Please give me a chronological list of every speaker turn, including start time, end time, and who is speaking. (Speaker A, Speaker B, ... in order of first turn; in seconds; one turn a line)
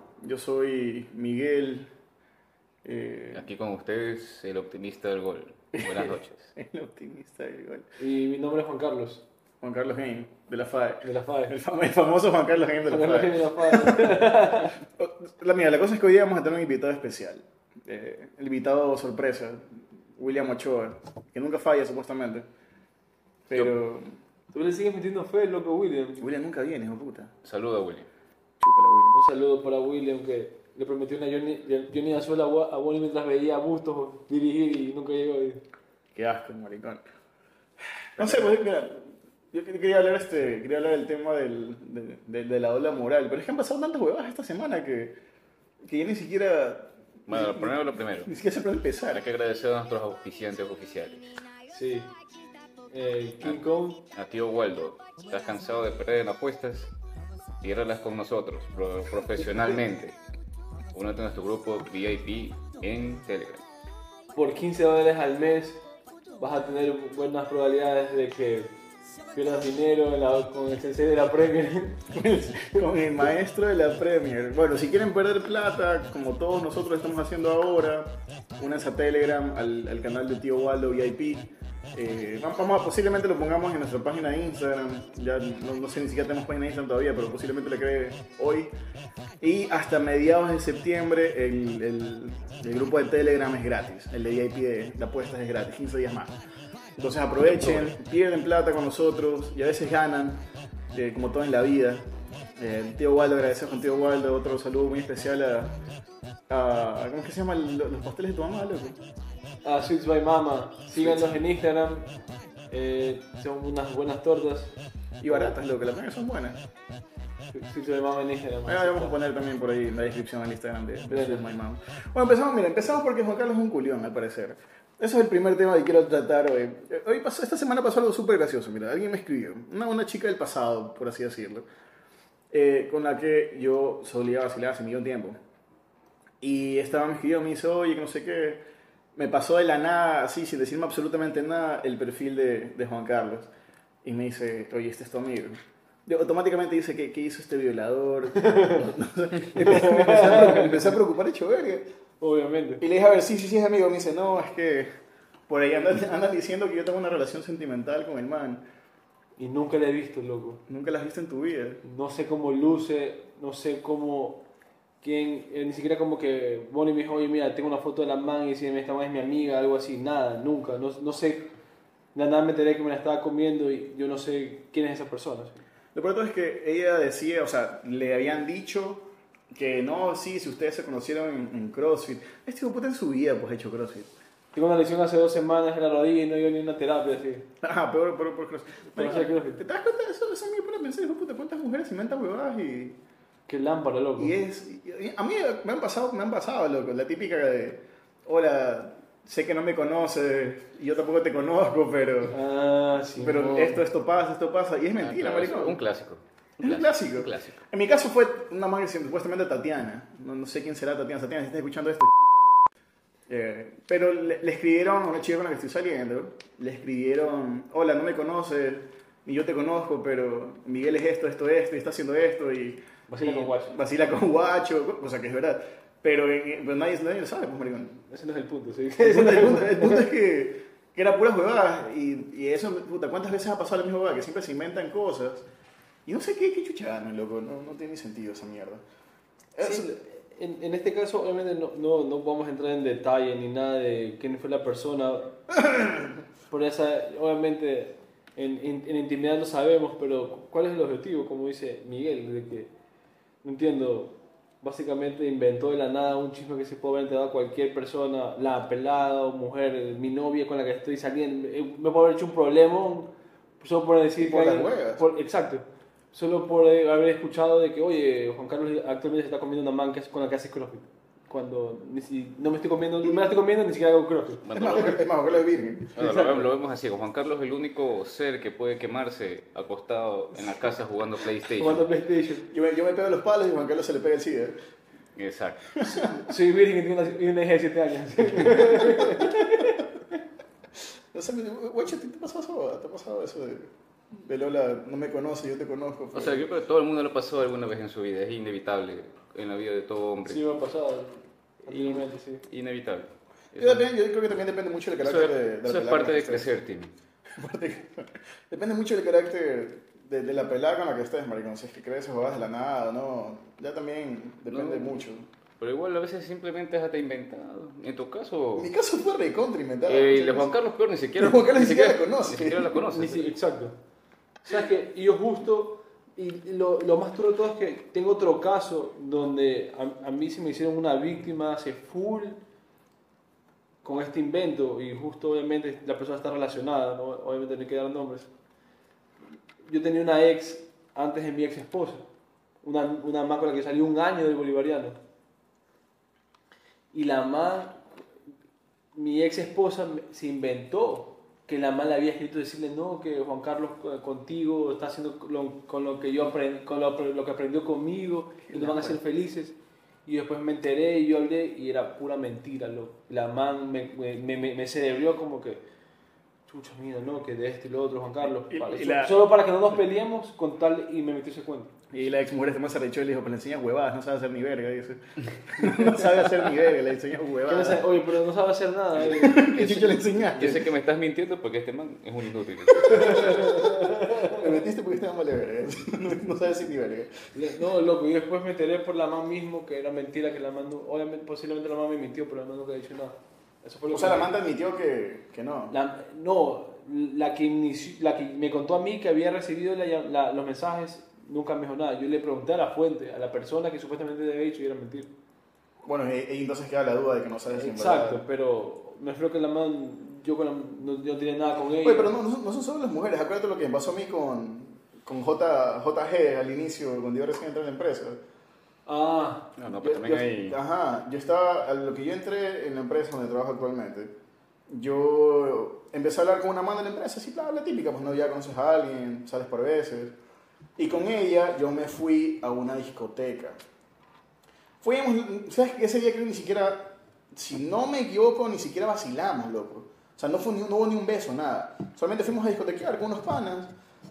Speaker A: 0.2-1.9
Speaker A: 2.8-3.5
Speaker B: 3.3-6.5
Speaker A: 5.7-7.9
Speaker C: 8.0-9.2
Speaker A: 9.6-22.5
Speaker C: 11.0-11.5
Speaker C: 12.9-14.7
Speaker A: 23.5-24.2
Speaker C: 24.5-26.3
Speaker A: 26.2-27.3
Speaker B: 27.4-28.1
Speaker A: 28.6-29.2
Speaker C: 29.1-35.6
Speaker A: 36.1-37.0
Speaker A: 38.2-45.1
Speaker B: 38.2-38.5
Speaker A: 45.8-49.2
Speaker B: 47.3-48.3
Speaker B: 49.1-51.4
Speaker C: 51.7-52.1
Speaker C: 52.9-54.0
Speaker B: 53.4-56.9
Speaker B: 57.6-60.2
Speaker B: 60.9-63.6
Speaker C: 64.3-65.8
Speaker C: 66.4-68.7
Speaker C: 69.3-72.0
Speaker A: 72.1-88.7
Speaker A: 89.4-96.3
Speaker A: 97.0-100.4
Speaker B: 97.4-97.9
Speaker A: 100.9-102.0
Speaker A: 102.6-105.7
Speaker A: 106.5-109.0
Speaker C: 109.6-112.1
Speaker A: 110.9-111.4
Speaker C: 112.7-114.7
Speaker A: 115.2-116.6
Speaker C: 115.3-115.5
Speaker C: 117.5-119.2
Speaker A: 118.7-131.7
Speaker C: 121.1-121.5
Speaker A: 132.5-135.4
Speaker A: 136.4-138.6
Speaker A: 139.2-143.5
Speaker A: 144.0-151.8
Speaker C: 148.3-148.9
Speaker C: 149.6-150.7
Speaker C: 152.2-152.8
Speaker A: 152.8-154.9
Speaker A: 155.5-158.6
Speaker C: 159.4-160.6
Speaker A: 160.7-161.8
Speaker C: 161.8-164.4
Speaker C: 165.0-171.5
Speaker C: 172.1-175.6
Speaker A: 175.9-184.1
Speaker C: 184.5-187.5
Speaker A: 187.6-193.0
Speaker C: 188.9-189.6
Speaker C: 193.5-194.3
Speaker A: 194.2-202.4
Speaker C: 202.3-203.8
Speaker A: 203.2-205.8
Speaker B: 205.0-207.6
Speaker A: 206.6-212.6
Speaker A: 213.3-228.0
Speaker C: 223.1-223.7
Speaker C: 228.1-230.1
Speaker A: 229.0-235.4
Speaker A: 236.1-238.8
Speaker A: 239.6-239.9
Speaker C: 239.6-245.3
Speaker A: 245.5-246.2
Speaker C: 246.5-252.7
Speaker C: 253.4-274.5
Speaker A: 264.2-265.0
Speaker B: 274.4-275.0
Speaker A: 274.5-275.9
Speaker B: 275.9-281.8
Speaker C: 276.0-276.4
Speaker C: 281.6-282.5
Speaker A: 282.5-284.6
Speaker B: 285.1-285.8
Speaker A: 285.8-286.3
Speaker C: 286.3-289.9
Speaker A: 288.5-289.7
Speaker A: 291.1-296.4
Speaker B: 296.1-300.4
Speaker C: 300.2-301.1
Speaker C: 301.6-302.4
Speaker B: 301.7-303.9
Speaker A: 303.6-306.5
Speaker B: 305.0-306.9
Speaker A: 307.4-315.2
Speaker B: 314.5-315.0
Speaker B: 315.6-318.7
Speaker A: 318.5-320.5
Speaker B: 319.9-323.3
Speaker A: 321.2-322.8
Speaker C: 322.8-323.8
Speaker C: 324.4-332.4
Speaker C: 333.8-338.3
Speaker C: 339.6-342.0
Speaker C: 342.6-345.0
Speaker C: 346.9-347.8
Speaker C: 348.9-365.6
Speaker A: 358.5-359.0
Speaker C: 366.5-371.7
Speaker A: 368.2-369.3
Speaker A: 371.9-377.9
Speaker C: 375.6-375.9
Speaker C: 377.4-380.2
Speaker A: 379.1-380.7
Speaker B: 380.3-383.5
Speaker C: 382.7-384.4
Speaker A: 383.0-387.2
Speaker C: 387.3-394.3
Speaker A: 393.9-395.7
Speaker C: 395.7-405.1
Speaker A: 405.8-408.2
Speaker C: 407.5-412.1
Speaker A: 411.7-418.2
Speaker C: 418.9-419.5
Speaker B: 419.6-420.6
Speaker A: 419.7-424.1
Speaker A: 424.7-430.1
Speaker A: 430.8-433.6
Speaker A: 434.8-443.7